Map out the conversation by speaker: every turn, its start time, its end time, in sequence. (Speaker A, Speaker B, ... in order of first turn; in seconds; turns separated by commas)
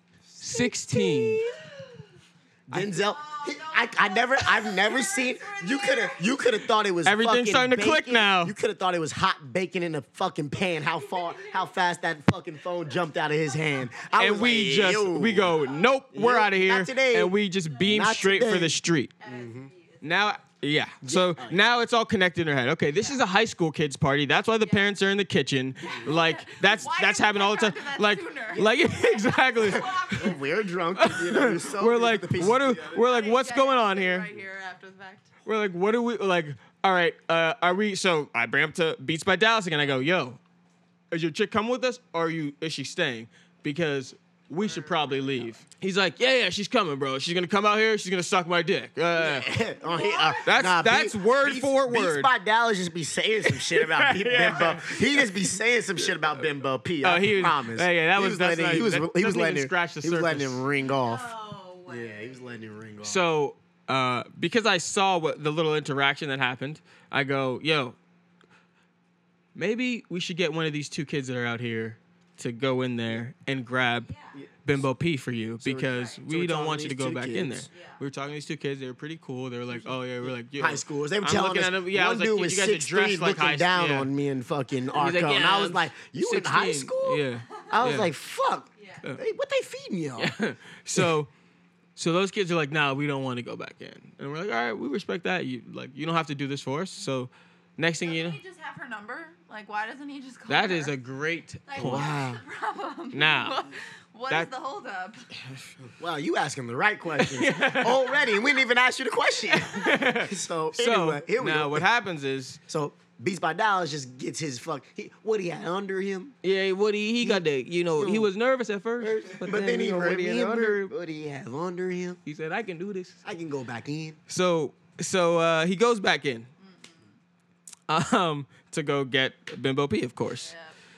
Speaker A: 0.3-1.8, Speaker B: 0.4-1.4, Speaker A: 2.7-15.6, Speaker C: 2.8-6.6, Speaker B: 7.0-8.5, Speaker C: 10.7-11.8, Speaker C: 13.1-14.1, Speaker B: 14.2-19.1, Speaker C: 15.5-15.9, Speaker A: 16.1-17.3, Speaker C: 17.6-18.3, Speaker A: 17.9-19.7, Speaker C: 19.2-20.2, Speaker B: 20.0-30.3, Speaker A: 21.0-21.6, Speaker C: 22.9-23.3, Speaker C: 24.6-24.9, Speaker C: 25.8-30.6, Speaker A: 29.6-33.0, Speaker B: 31.0-34.3, Speaker C: 32.9-35.3, Speaker B: 35.5-40.4, Speaker B: 41.1-49.5, Speaker A: 49.1-61.3, Speaker C: 49.7-50.5, Speaker B: 50.5-52.3, Speaker B: 53.4-55.4, Speaker B: 57.0-60.6, Speaker C: 60.8-62.5, Speaker A: 61.9-63.2, Speaker B: 63.0-68.0, Speaker B: 69.5-74.1, Speaker C: 74.0-74.4, Speaker A: 74.3-74.8, Speaker B: 74.6-84.1, Speaker A: 75.6-77.7, Speaker C: 75.9-76.2, Speaker C: 77.7-78.0, Speaker A: 80.2-90.3, Speaker B: 84.9-88.1, Speaker C: 87.5-87.8, Speaker C: 88.8-89.0, Speaker B: 90.2-91.3, Speaker B: 92.0-98.4, Speaker C: 98.0-100.9, Speaker B: 100.5-102.1, Speaker C: 101.7-105.3, Speaker A: 101.8-102.4, Speaker B: 103.1-103.6, Speaker A: 105.8-111.8, Speaker B: 107.2-108.1, Speaker B: 109.5-112.6, Speaker A: 112.7-116.3, Speaker B: 116.4-120.9, Speaker A: 117.2-117.4, Speaker A: 118.0-118.3, Speaker A: 119.0-122.2, Speaker B: 122.2-123.2, Speaker A: 123.2-124.2, Speaker B: 124.3-126.5, Speaker C: 126.6-127.2, Speaker B: 127.9-130.5, Speaker C: 130.3-130.8